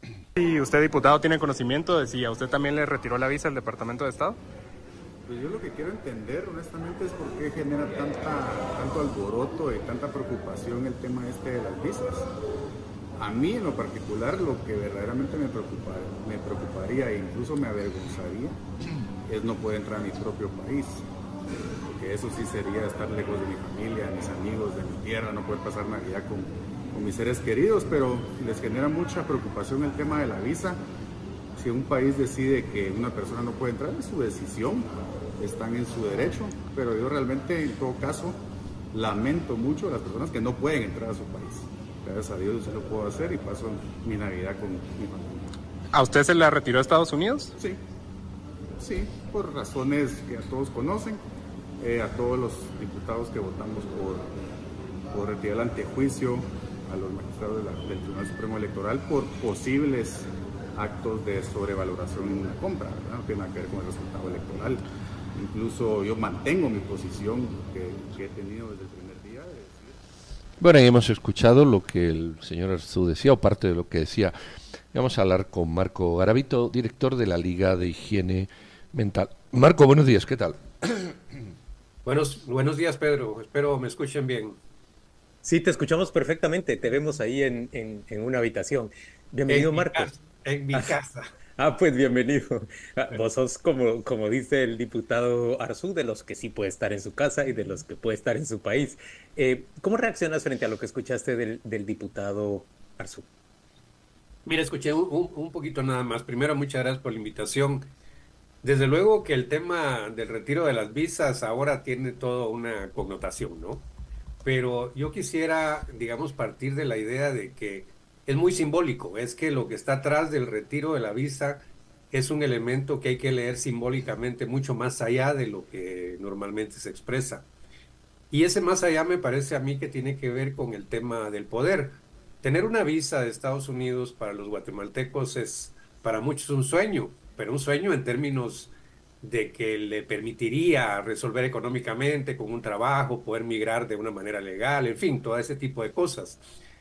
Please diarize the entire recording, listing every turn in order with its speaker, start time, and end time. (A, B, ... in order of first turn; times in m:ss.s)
0:00.4-0:04.4 A
0:05.2-0:12.3 B
0:13.2-0:18.6 B
0:19.3-0:21.0 B
0:21.7-0:30.8 B
0:31.6-0:38.4 B
0:38.9-0:45.4 B
0:45.9-0:47.5 A
0:48.8-0:51.2 B
0:51.8-0:54.3 B
0:55.1-1:04.8 B
1:05.3-1:10.0 B
1:10.6-1:14.3 C
1:14.9-1:21.1 C
1:22.0-1:24.6 D
1:25.4-1:30.1 E
1:29.5-1:31.2 D
1:31.6-1:43.3 E
1:44.4-1:47.9 D
1:48.6-1:53.9 D
1:54.4-2:07.5 D
2:08.3-2:26.4 D